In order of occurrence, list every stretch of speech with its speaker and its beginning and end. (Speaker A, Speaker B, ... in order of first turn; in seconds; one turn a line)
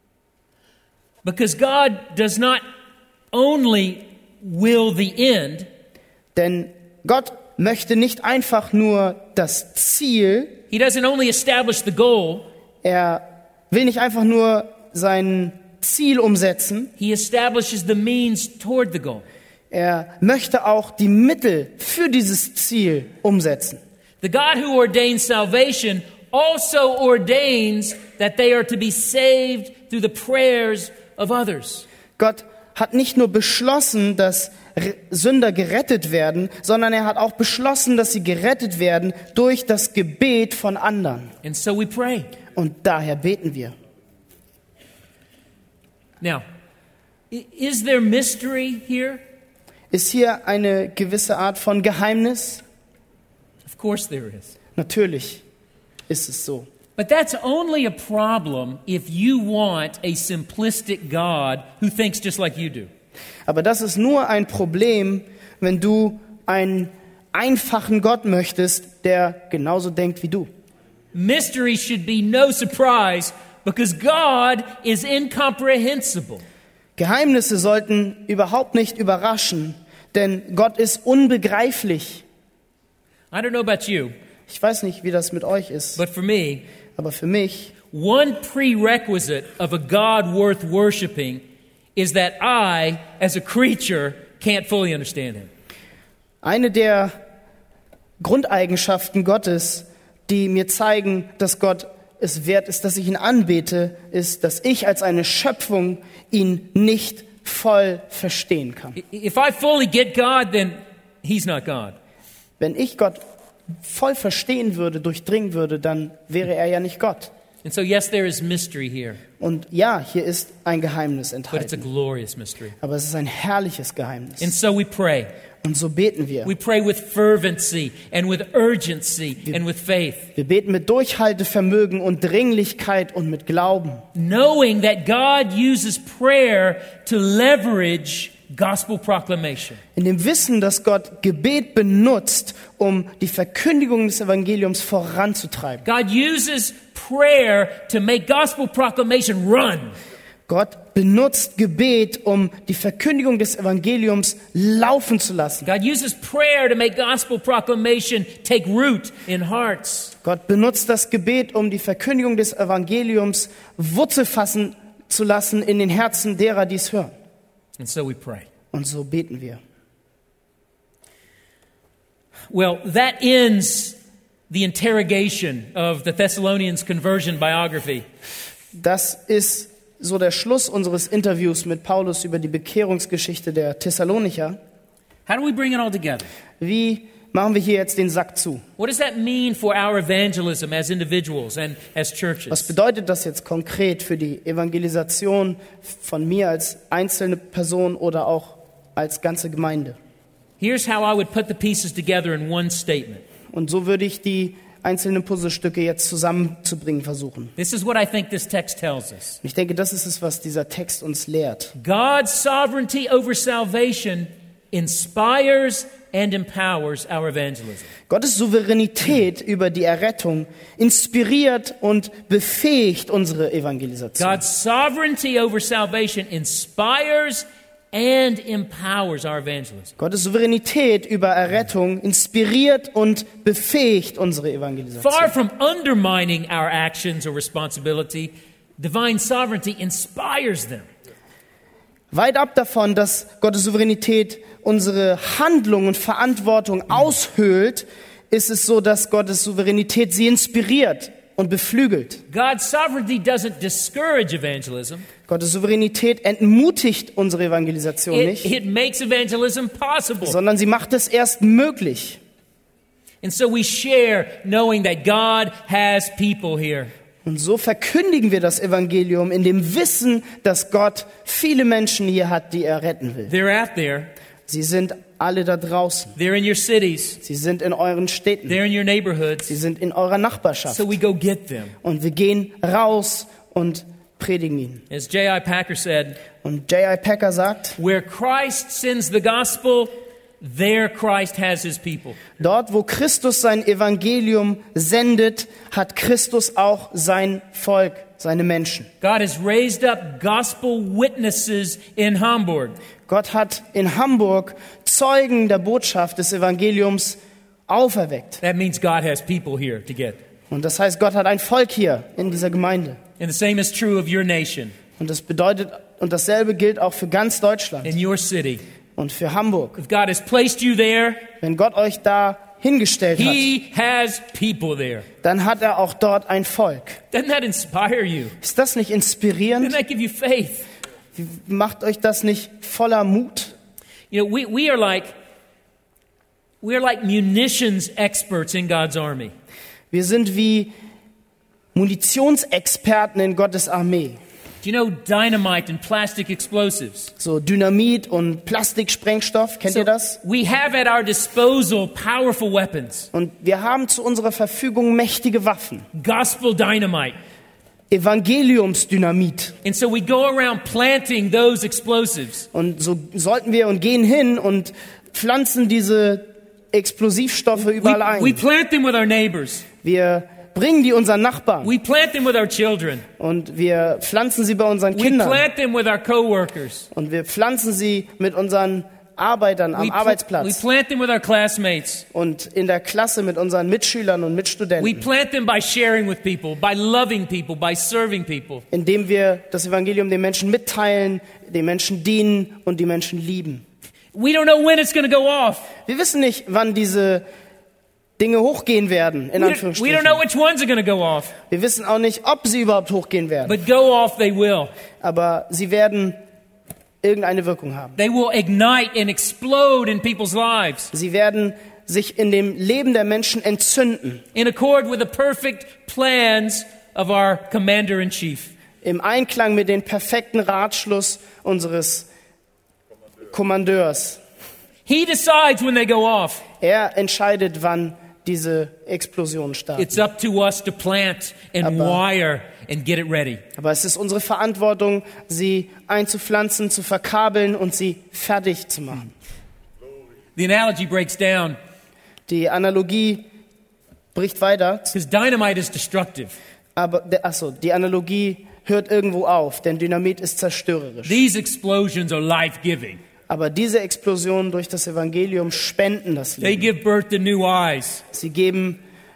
Speaker A: 1.2-2.6
Speaker A: 3.3-5.7
Speaker B: 6.3-10.6
Speaker A: 10.7-12.5
Speaker B: 12.8-16.9
Speaker A: 17.0-19.2
Speaker B: 19.7-23.8
Speaker A: 24.2-31.9
Speaker B: 32.2-41.3
Speaker A: 41.4-42.3
Speaker B: 42.5-43.8
Speaker A: 47.3-49.2
Speaker B: 49.9-52.6
Speaker A: 53.6-54.5
Speaker B: 54.8-55.4
Speaker B: 56.1-56.7
Speaker A: 57.0-62.9
Speaker B: 63.5-70.5
Speaker A: 71.1-76.4
Speaker B: 77.0-82.2
Speaker A: 83.3-84.2
Speaker B: 84.5-86.0
Speaker A: 86.0-86.6
Speaker B: 87.0-87.7
Speaker A: 87.9-91.4
Speaker A: 92.0-95.5
Speaker B: 96.4-97.2
Speaker B: 98.2-109.0
Speaker A: 109.0-112.0
Speaker B: 112.6-113.2
Speaker B: 113.8-117.3
Speaker A: 117.6-119.2
Speaker B: 119.4-121.9
Speaker A: 121.5-122.8
Speaker B: 122.8-124.5
Speaker A: 124.4-125.3
Speaker B: 125.6-126.5
Speaker A: 126.4-130.3
Speaker B: 130.4-134.1
Speaker A: 134.2-139.8
Speaker B: 140.0-145.8
Speaker A: 145.8-150.0
Speaker B: 150.5-155.7
Speaker A: 155.7-160.1
Speaker B: 160.2-167.1
Speaker A: 167.8-168.5
Speaker B: 168.7-169.6
Speaker A: 172.5-174.0
Speaker A: 174.5-178.1
Speaker B: 178.8-184.6
Speaker A: 185.3-186.3
Speaker B: 186.6-188.6
Speaker A: 188.8-192.7
Speaker B: 192.5-200.0
Speaker A: 200.6-203.2
Speaker B: 203.5-207.5
Speaker A: 207.6-209.4
Speaker B: 209.4-211.7
Speaker A: 211.8-217.9
Speaker B: 218.1-224.4
Speaker A: 224.2-229.9
Speaker B: 230.0-235.3
Speaker A: 235.0-240.9
Speaker B: 242.1-252.2
Speaker A: 252.3-255.1
Speaker B: 255.3-258.5
Speaker A: 258.1-260.4
Speaker B: 260.2-262.2
Speaker A: 263.2-266.9
Speaker B: 267.2-273.3
Speaker A: 273.3-274.1
Speaker B: 274.5-276.1
Speaker A: 276.2-277.2
Speaker B: 277.2-278.6
Speaker A: 278.5-279.5
Speaker B: 279.5-280.9
Speaker A: 280.7-281.7
Speaker B: 281.8-284.8
Speaker A: 284.9-286.2
Speaker B: 286.4-287.8
Speaker A: 287.8-292.2
Speaker B: 292.4-298.9
Speaker A: 299.0-302.8
Speaker B: 303.1-308.4
Speaker A: 308.4-310.2
Speaker B: 310.5-313.0
Speaker A: 313.2-314.8
Speaker B: 315.0-317.9
Speaker A: 317.8-318.6
Speaker B: 319.0-319.8
Speaker A: 319.8-321.2
Speaker B: 321.4-323.5
Speaker A: 323.1-325.1
Speaker B: 325.2-327.0
Speaker A: 327.1-328.4
Speaker B: 328.4-329.8
Speaker A: 329.6-330.7
Speaker B: 331.2-333.5
Speaker A: 334.1-335.1
Speaker A: 336.6-339.3
Speaker B: 339.9-340.7
Speaker B: 341.8-344.2
Speaker A: 344.6-347.1
Speaker B: 347.2-350.2
Speaker A: 349.7-353.1
Speaker B: 353.1-355.9
Speaker A: 355.9-357.2
Speaker B: 357.9-359.6
Speaker A: 359.6-362.5
Speaker B: 362.5-368.4
Speaker A: 367.6-369.7
Speaker B: 369.8-371.7
Speaker A: 371.6-373.1
Speaker B: 373.2-375.4
Speaker A: 374.9-376.9
Speaker B: 376.9-380.6
Speaker A: 379.8-382.1
Speaker B: 382.1-385.1
Speaker A: 384.8-388.6
Speaker B: 388.7-393.6
Speaker A: 394.1-395.7
Speaker B: 395.9-397.2
Speaker B: 398.2-400.2
Speaker A: 399.4-401.3
Speaker B: 401.5-403.6
Speaker A: 403.4-404.7
Speaker B: 405.0-406.2
Speaker B: 407.0-408.0
Speaker A: 408.0-410.9
Speaker B: 410.9-414.2
Speaker A: 414.4-418.5
Speaker B: 418.8-422.1
Speaker B: 423.3-424.2
Speaker A: 424.9-426.4
Speaker B: 426.6-430.0
Speaker A: 429.8-433.4
Speaker B: 431.6-432.0
Speaker B: 433.6-439.1
Speaker A: 440.4-441.6
Speaker B: 442.3-443.3
Speaker B: 444.1-444.9
Speaker A: 444.9-446.4
Speaker B: 446.8-451.2
Speaker A: 451.1-453.0
Speaker B: 453.3-456.7
Speaker A: 456.4-458.0
Speaker B: 458.1-458.8